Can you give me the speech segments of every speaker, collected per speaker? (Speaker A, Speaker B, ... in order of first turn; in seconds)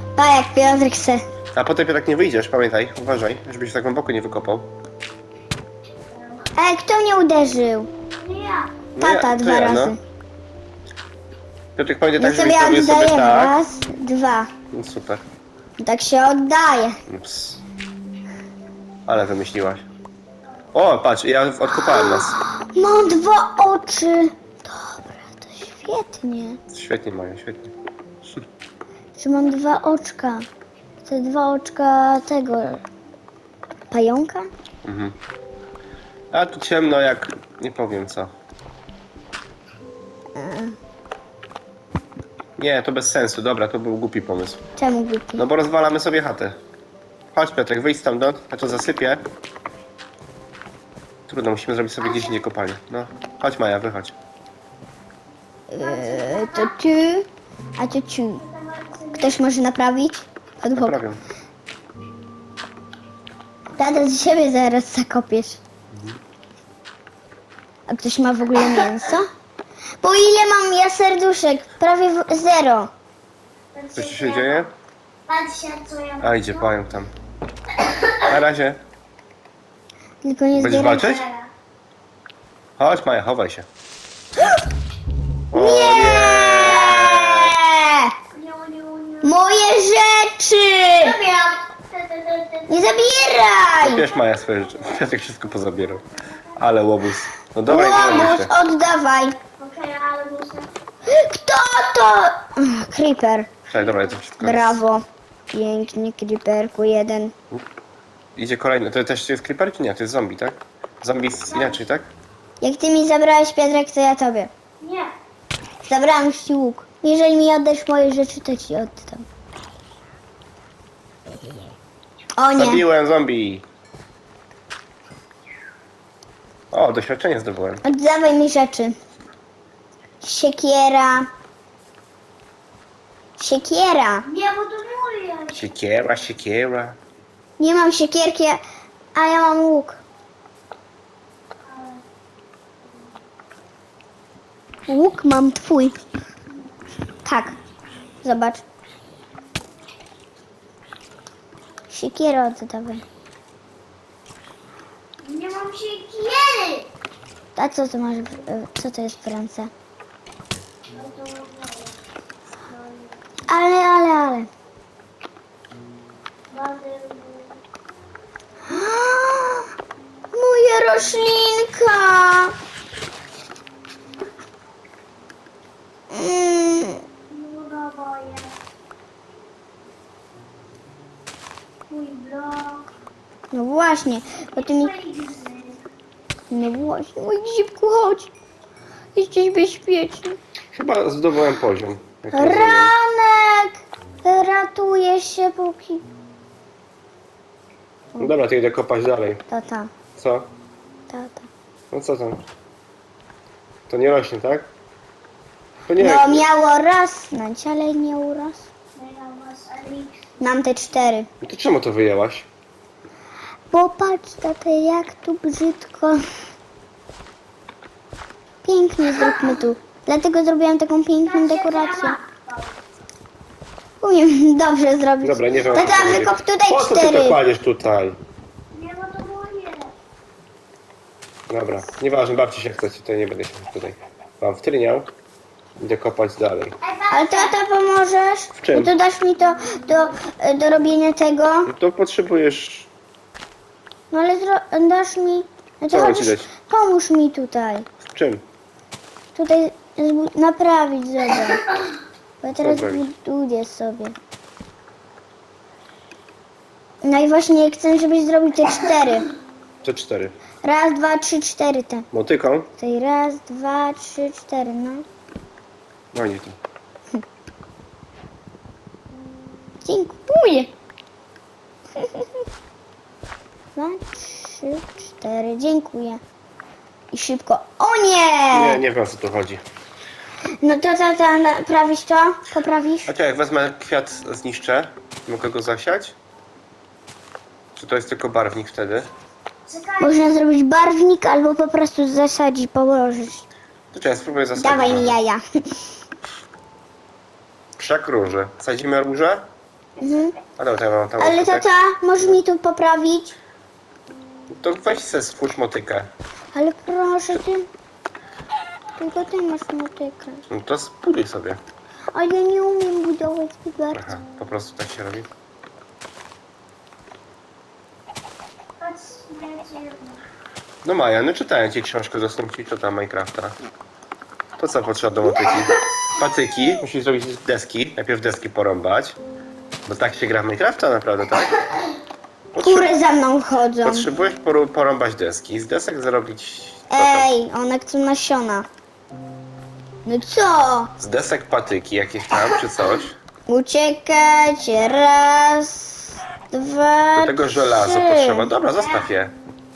Speaker A: 0.2-1.2, 6.6-7.9, 9.0-10.0, 12.2-14.5, 15.8-17.0, 21.7-26.6, 29.2-30.5, 31.1-32.8, 33.9-34.5, 40.4-40.8, 44.8-45.4, 55.7-58.4, 59.2-61.0, 63.8-65.6, 67.9-69.3, 70.0-72.9, 80.2-81.2, 85.5-88.1, 89.2-91.2, 92.7-94.0, 97.7-99.4, 101.1-103.6, 104.4-107.3, 112.6-114.5, 115.8-119.3, 122.4-122.8, 127.8-129.0, 130.2-131.3, 133.4-134.3, 137.6-138.6, 139.2-140.0, 144.9-146.0, 147.2-147.6, 148.2-148.6, 151.9-153.1, 157.6-159.7, 163.5-164.5, 168.7-169.7, 170.3-172.6, 176.1-177.0, 183.5-184.9, 186.5-188.3, 189.2-190.4, 192.3-196.1, 199.5-199.9, 201.1-201.5, 206.0-208.7, 210.4-211.3, 213.7-216.3, 218.6-222.2, 224.0-227.4, 237.1-241.7, 244.1-247.9, 249.3-251.6, 252.4-254.2, 257.0-259.3, 260.6-262.1, 262.8-265.1, 269.8-270.7, 272.0-272.3, 273.8-276.2, 277.1-278.8, 280.6-283.1, 290.0-293.4, 294.6-295.8, 300.0-300.4, 301.2-303.4, 306.5-307.7, 309.0-310.4, 312.1-314.2, 332.6-334.1, 336.9-338.7, 340.1-340.9, 343.5-348.5
Speaker B: 1.5-4.7, 9.0-10.0, 11.8-13.6, 14.7-15.2, 17.1-17.6, 19.1-19.9, 20.7-22.4, 26.7-27.7, 34.8-35.2, 36.3-38.3, 42.6-44.6, 45.4-46.6, 47.3-49.2, 51.3-54.1, 60.8-61.2, 65.9-66.2, 74.0-74.7, 76.2-77.1, 78.2-78.8, 80.5-81.2, 82.8-83.7, 85.5-87.6, 93.8-96.0, 96.6-98.5, 103.7-104.8, 108.3-112.1, 122.5-123.7, 126.7-127.8, 135.5-137.0, 190.7-192.9, 198.2-199.4, 200.2-200.5, 201.9-202.4, 203.9-204.7, 205.9-206.5, 211.4-212.5, 225.2-228.2, 231.5-235.1, 235.8-236.8, 238.6-238.9, 241.7-242.9, 245.9-246.5, 248.0-248.4, 252.6-253.1, 259.8-260.4, 262.1-262.7, 266.1-266.6, 278.5-279.6, 283.1-286.2, 287.8-289.1, 293.9-295.2, 297.8-299.5, 300.6-301.6, 304.5-306.1, 310.5-311.6, 313.9-315.3, 320.8-323.6, 324.6-329.2, 329.9-331.6, 332.5-332.9, 333.8-337.3, 341.0-343.2, 347.2-349.4
Speaker C: 6.1-6.5, 8.2-8.7, 52.0-52.3, 55.8-56.8, 58.4-59.4, 73.7-74.7, 75.3-76.7, 77.8-78.2, 81.0-81.5, 88.3-89.7, 91.0-96.7, 99.6-100.7, 103.7-104.2, 111.5-111.8, 114.8-115.1, 134.2-135.7, 141.7-142.0, 155.2-156.9, 160.9-162.0, 162.6-163.2, 166.5-167.6, 177.3-178.6, 181.9-182.9, 184.6-185.8, 208.9-210.5, 221.3-222.8, 228.7-229.9, 236.8-237.6, 289.7-290.4, 318.8-320.2